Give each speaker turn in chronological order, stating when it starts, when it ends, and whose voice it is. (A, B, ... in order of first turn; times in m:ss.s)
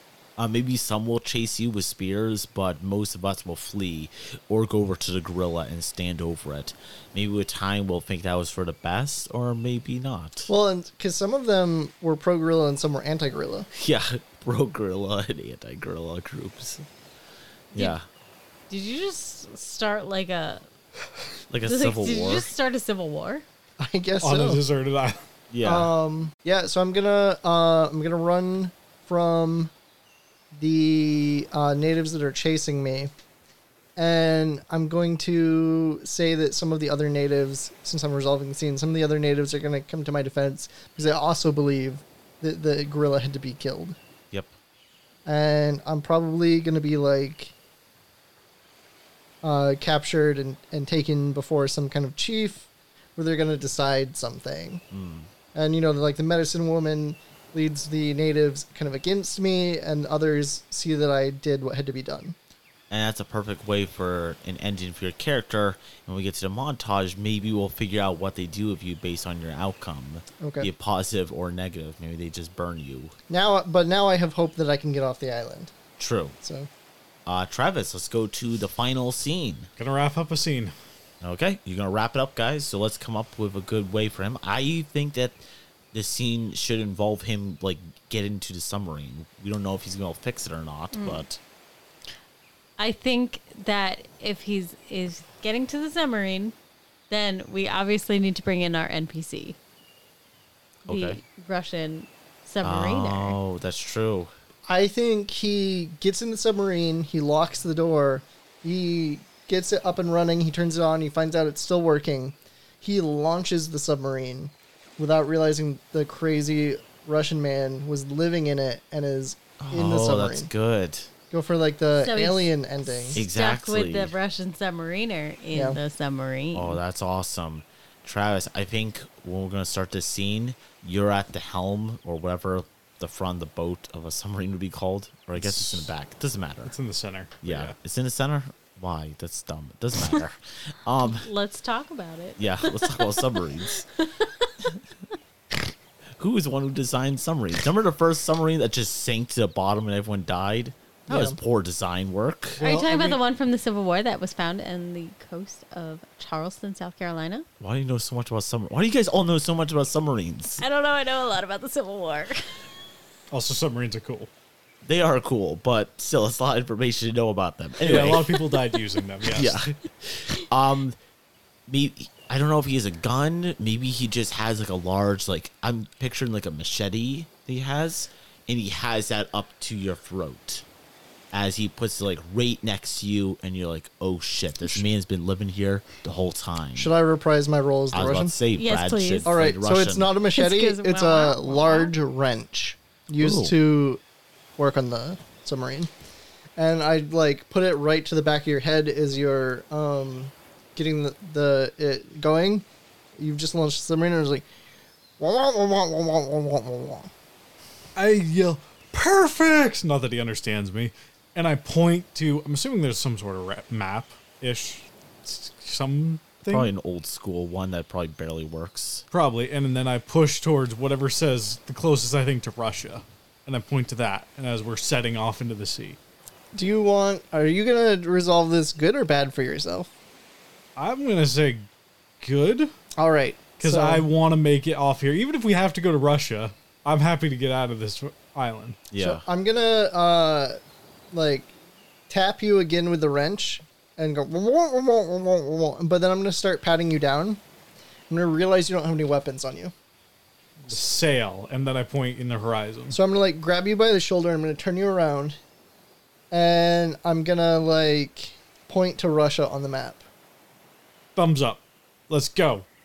0:00.4-0:10.5 A
0:10.5-0:13.7 B
0:13.7-0:16.8 A
0:17.7-0:18.0 A
0:18.7-0:20.6 C
0:21.5-0:22.5 A
0:21.6-0:23.4 C
0:23.8-0:24.6 B
0:24.2-0:25.2 D
0:25.5-0:25.9 A
0:25.6-0:29.7 B
0:30.5-0:33.1 B
0:34.0-0:44.0 B
0:45.2-0:47.5 B
0:49.4-0:54.8 B
0:54.9-0:55.3 A
0:55.5-1:02.4 B
1:02.9-1:13.1 A
1:10.4-1:10.7 B
1:13.3-1:15.7 B
1:16.0-1:16.3 A
1:16.4-1:16.7 B
1:17.2-1:19.7 A
1:19.8-1:20.7 D
1:21.2-1:31.4 A
1:30.9-1:31.2 C
1:32.8-1:36.5 C
1:37.1-1:39.6 C
1:40.9-1:41.2 A
1:40.9-1:43.4 C
1:42.6-1:44.3 A
1:44.7-2:00.5 B
1:59.6-2:01.1 A
2:01.3-2:03.2 B
2:02.0-2:06.8 C
2:03.1-2:04.1 A
2:05.5-2:05.8 B
2:06.5-2:16.7 A
2:15.4-2:15.9 D
2:16.6-2:17.7 D
2:17.4-2:21.3 A
2:21.1-2:24.5 C
2:22.4-2:23.8 A
2:26.2-2:32.6 A
2:31.1-2:31.4 B
2:32.6-2:33.2 D
2:32.6-2:37.4 C
2:37.6-2:40.6 A
2:40.6-2:42.6 C
2:43.3-2:44.3 D
2:44.8-2:48.3 A
2:47.8-2:49.6 D
2:49.2-2:51.0 A
2:51.7-3:00.6 A
3:01.3-3:06.9 A
3:06.8-3:08.4 B
3:07.9-3:10.1 A
3:08.6-3:09.3 C
3:09.2-3:14.0 B
3:10.3-3:11.9 C
3:13.2-3:13.5 A
3:14.6-3:15.9 B
3:16.6-3:22.6 B
3:23.2-3:24.4 B
3:25.2-3:27.1 B
3:28.0-3:36.7 D
3:36.5-3:39.0 A
3:39.1-3:46.0 D
3:46.5-3:49.9 B
3:50.8-3:51.7 D
3:52.2-3:52.7 D
3:53.0-3:54.0 B
3:53.6-3:58.8 D
3:58.9-3:59.2 A
3:59.0-4:00.6 B
4:01.1-4:01.5 B
4:02.1-4:07.4 B
4:08.1-4:09.7 B
4:10.6-4:13.0 D
4:12.9-4:15.4 B
4:16.3-4:20.0 B
4:21.2-4:22.6 D